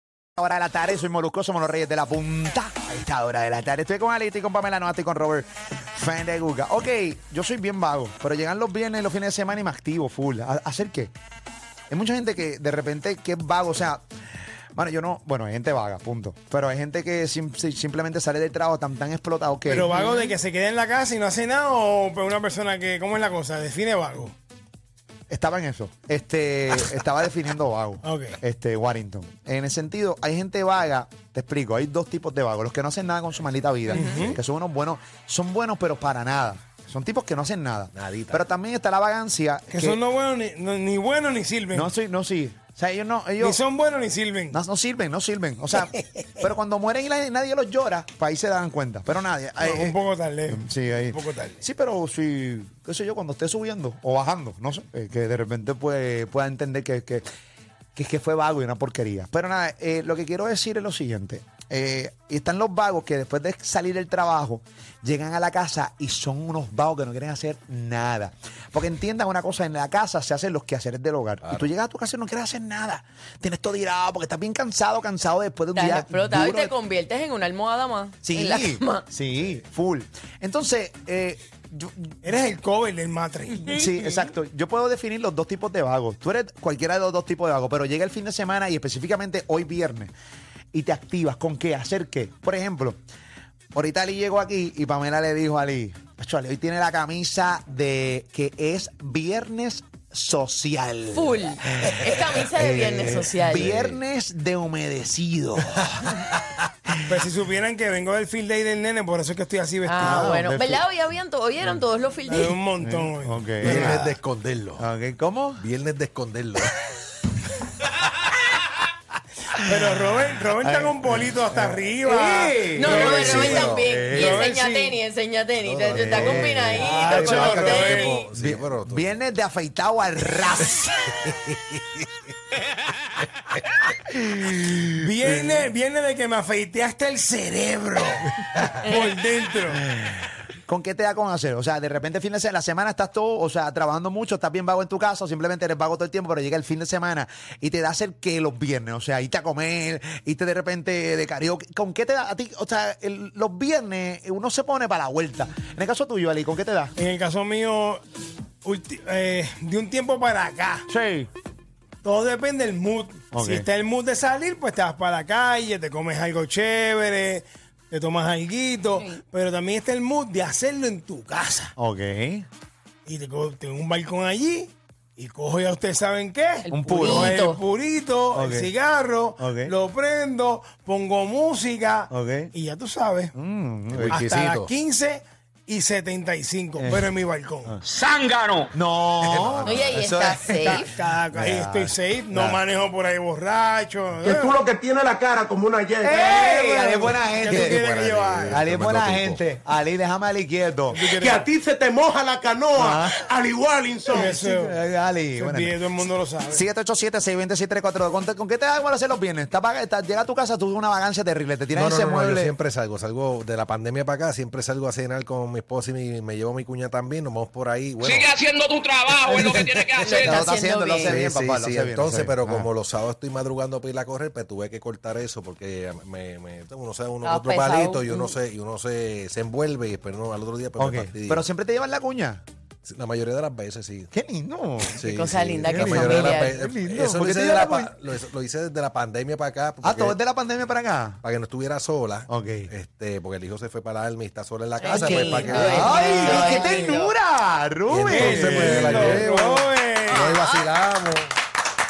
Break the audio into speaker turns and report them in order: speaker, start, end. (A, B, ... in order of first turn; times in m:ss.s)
0:00.4-0:11.1 A
0:11.9-0:14.0 A
0:14.7-0:20.0 A
0:19.7-0:24.3 B
0:19.7-0:20.3 C
0:25.3-0:40.0 A
0:28.0-0:28.4 B
0:33.9-0:34.2 C
0:33.9-0:34.3 B
0:37.9-0:38.5 D
0:39.7-0:41.9 B
0:41.7-0:43.6 A
0:43.4-0:44.6 B
0:44.5-0:50.0 A
0:49.6-0:51.6 B
0:50.5-0:57.2 A
0:58.0-1:16.8 A
1:11.4-1:11.7 D
1:15.7-1:19.1 C
1:18.2-1:22.2 A
1:22.2-1:24.3 B
1:23.6-1:30.1 A
1:30.7-1:33.0 A
1:33.7-1:46.1 A
1:41.1-1:43.7 C
1:43.5-1:44.0 D
1:47.1-1:50.3 B
1:49.8-1:52.6 C
1:50.0-1:50.8 A
1:52.2-1:54.0 B
1:52.8-1:54.1 A
1:53.6-1:54.8 D
1:54.8-1:55.6 A
1:55.6-1:56.8 D
1:59.6-2:05.0 B
2:00.6-2:04.5 A
2:02.7-2:08.2 C
2:02.8-2:04.0 D
2:05.6-2:09.2 D
2:05.9-2:07.7 A
2:06.8-2:08.1 B
2:08.3-2:11.1 A
2:14.3-2:14.9 A
2:15.0-2:19.8 B
2:20.6-2:36.9 A
2:37.0-2:38.0 B
2:38.6-2:40.8 B
2:40.9-2:41.3 A
2:42.0-2:51.7 B
2:43.3-2:43.7 A
2:48.9-2:49.2 C
2:51.8-2:52.4 A
2:53.0-3:03.3 B
2:56.6-2:57.6 C
2:56.7-2:57.4 A
2:58.3-2:58.7 A
2:59.4-2:59.7 A
3:02.1-3:02.5 A
3:03.3-3:04.2 A
3:03.9-3:04.7 D
3:04.0-3:07.8 B
3:06.8-3:07.8 A
3:08.2-3:08.7 E
3:08.7-3:12.6 A
3:09.2-3:10.0 D
3:09.6-3:10.9 C
3:10.5-3:14.6 B
3:14.2-3:16.9 F
3:16.0-3:17.9 A
3:16.1-3:18.6 B
3:17.5-3:19.4 D
3:18.5-3:21.1 A
3:20.9-3:21.5 B
3:21.0-3:24.4 F
3:22.8-3:23.2 A
3:24.1-3:25.8 A
3:24.1-3:24.8 B
3:25.4-3:26.6 B
3:26.4-3:32.5 A
3:31.7-3:38.4 D
3:38.0-3:40.3 E
3:39.1-3:39.4 D
3:39.3-3:42.7 A
3:40.0-3:41.2 C
3:41.0-3:51.4 D
3:47.2-3:48.3 C
3:50.8-3:52.4 A
3:52.9-3:54.1 D
3:54.1-3:55.0 A
3:54.9-4:00.2 D
3:55.0-3:56.6 C
3:55.7-3:57.9 A
3:59.8-4:01.2 A
4:01.2-4:06.0 D
4:02.3-4:02.7 A
4:04.8-4:07.1 C
4:04.8-4:09.3 A
4:05.6-4:06.9 B
4:07.9-4:11.3 D
4:08.1-4:10.3 B
4:10.1-4:10.7 C